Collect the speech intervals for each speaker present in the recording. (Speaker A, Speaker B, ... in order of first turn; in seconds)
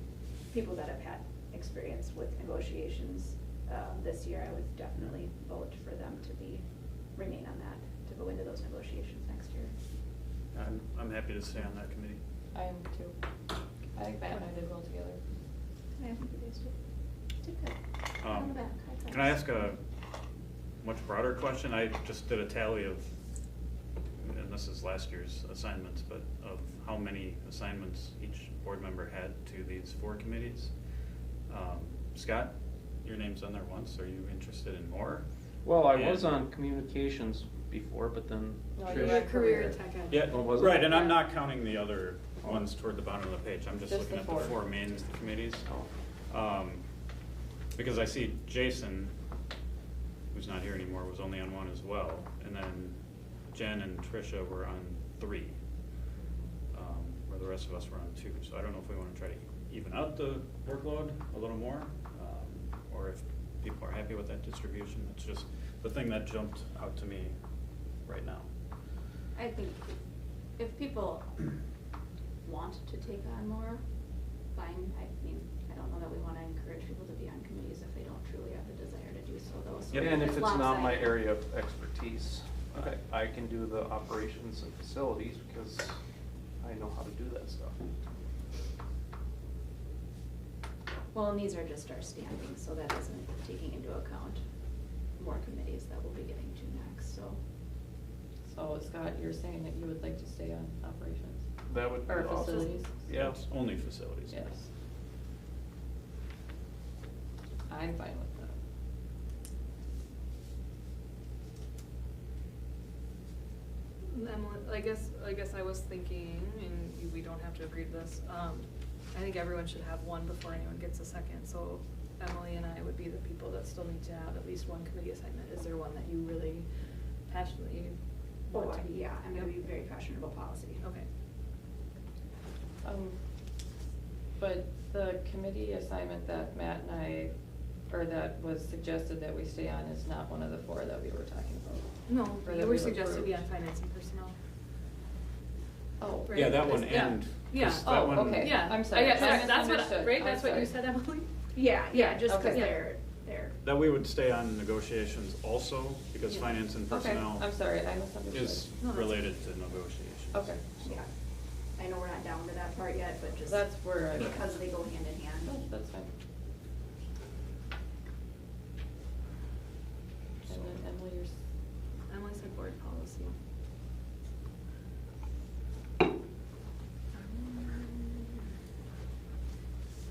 Speaker A: 0.5-9.7, 16.0-16.7, 17.4-19.4, 69.3-69.9, 70.6-71.4, 72.4-73.8, 74.5-81.2, 91.1-94.4, 95.2-97.4, 128.5-130.8, 151.5-153.6, 160.8-161.1, 161.8-165.6
Speaker B: 10.5-12.2, 18.2-19.8, 20.8-23.1, 24.2-30.7, 31.5-35.3, 35.9-36.3, 40.1-45.7, 46.3-46.8, 47.7-49.1, 50.3-53.0, 53.5-55.5, 56.7-67.3, 68.0-68.5, 79.9-80.2, 103.2-104.4, 146.3-149.3, 153.6-157.5, 158.3-161.0, 164.1-164.4, 170.4-170.8
Speaker C: 12.5-13.2, 13.9-15.2, 38.8-39.8, 43.9-44.6, 98.5-101.4, 102.0-102.9, 104.3-104.6, 107.7-108.5, 132.8-133.2, 134.4-137.3, 137.9-143.4, 146.0-147.2, 147.8-150.7, 151.9-152.8, 156.9-158.7, 160.3-160.6, 163.5-164.8, 165.4-166.1, 170.5-171.3
Speaker D: 35.6-39.2, 40.3-40.8, 79.9-86.0, 86.6-87.8, 101.7-103.4
Speaker E: 38.9-40.5, 102.4-102.8, 114.0-129.6, 130.8-131.1, 142.1-144.3, 146.3-151.3, 152.1-152.8, 158.8-159.2, 172.1-173.3, 177.3-178.1